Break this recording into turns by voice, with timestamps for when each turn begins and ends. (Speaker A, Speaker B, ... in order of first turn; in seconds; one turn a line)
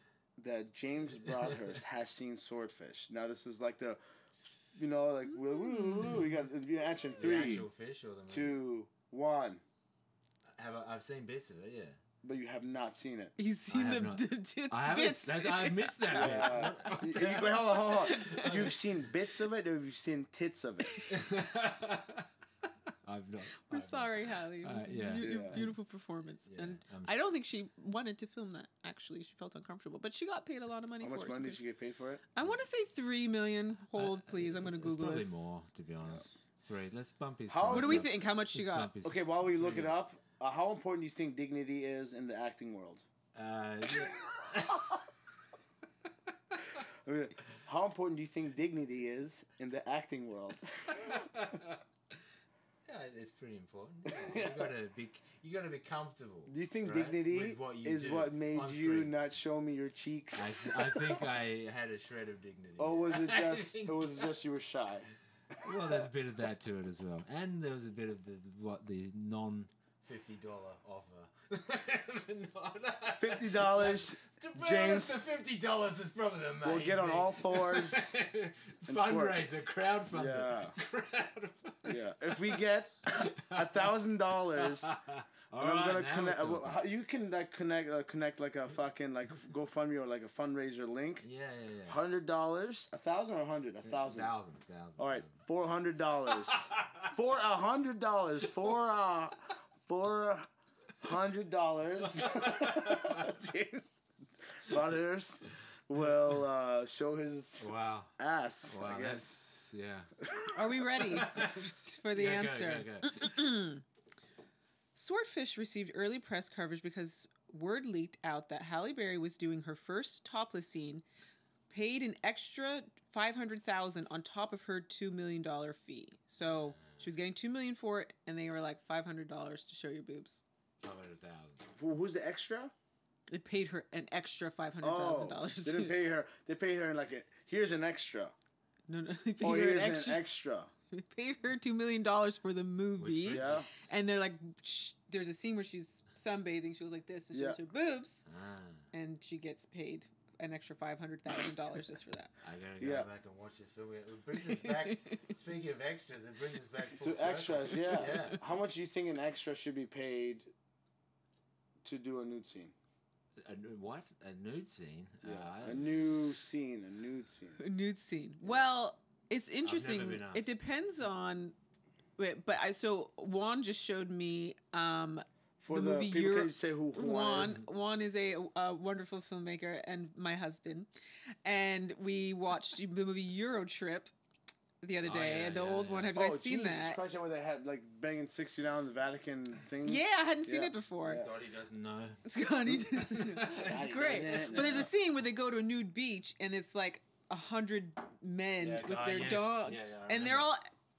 Speaker A: 0.4-4.0
Speaker A: 4.8-7.7
Speaker B: 6.0-6.4
Speaker B: 7.2-8.6
Speaker A: 8.3-9.6
Speaker B: 10.6-12.0
Speaker A: 12.2-13.3
Speaker C: 13.4-16.9
Speaker B: 13.7-18.9
Speaker A: 16.1-21.0
Speaker C: 18.1-18.4
Speaker B: 21.1-22.3
Speaker B: 23.0-25.8
Speaker C: 23.7-31.6
Speaker A: 25.2-25.6
Speaker B: 26.5-27.2
Speaker A: 31.0-32.2
Speaker C: 32.4-35.6
Speaker B: 34.0-40.0
Speaker A: 37.5-38.1
Speaker C: 37.7-38.9
Speaker A: 39.0-43.0
Speaker B: 43.4-45.1
Speaker A: 47.0-51.1
Speaker B: 51.0-51.8
Speaker B: 52.9-59.2
Speaker A: 54.1-54.7
Speaker A: 56.5-61.2
Speaker B: 60.3-64.3
Speaker A: 62.8-65.1
Speaker B: 65.5-82.5
Speaker A: 65.7-66.0
Speaker A: 73.2-75.2
Speaker A: 76.6-78.1
Speaker A: 78.9-79.4
Speaker A: 80.1-80.8
Speaker A: 81.8-84.9
Speaker B: 83.1-83.9
Speaker B: 84.5-86.8
Speaker A: 85.6-91.3
Speaker B: 91.2-92.0
Speaker A: 91.9-94.3
Speaker B: 93.8-95.4
Speaker A: 95.0-100.5
Speaker B: 96.3-97.1
Speaker A: 101.0-104.0
Speaker B: 102.1-103.3
Speaker A: 104.7-109.3
Speaker B: 107.6-108.1
Speaker B: 108.7-110.1
Speaker A: 110.2-111.0
Speaker C: 110.5-113.8
Speaker B: 111.1-113.4
Speaker C: 115.0-121.0
Speaker C: 121.7-130.4
Speaker B: 126.4-127.0
Speaker B: 130.8-131.6
Speaker A: 131.8-132.7
Speaker C: 133.3-136.0
Speaker A: 134.8-138.3
Speaker C: 138.9-140.3
Speaker A: 139.4-140.7
Speaker C: 140.9-148.2
Speaker B: 143.0-143.7
Speaker A: 143.3-143.7
Speaker A: 147.3-147.6
Speaker B: 148.3-148.8
Speaker C: 148.9-152.3
Speaker B: 152.4-158.5
Speaker A: 152.8-153.1
Speaker C: 154.5-155.2
Speaker A: 157.0-160.5
Speaker A: 161.8-162.7
Speaker B: 163.4-166.2
Speaker A: 165.2-167.6
Speaker C: 167.6-171.6
Speaker B: 169.6-170.5
Speaker C: 172.2-180.9
Speaker A: 175.6-177.6
Speaker B: 177.3-177.6
Speaker C: 181.4-184.1
Speaker C: 184.8-187.0
Speaker B: 185.0-186.1
Speaker A: 186.1-191.3
Speaker C: 189.8-191.2
Speaker B: 191.0-192.2
Speaker C: 192.2-200.7
Speaker B: 192.9-194.9
Speaker A: 193.5-194.9
Speaker A: 198.6-198.9
Speaker B: 198.7-200.5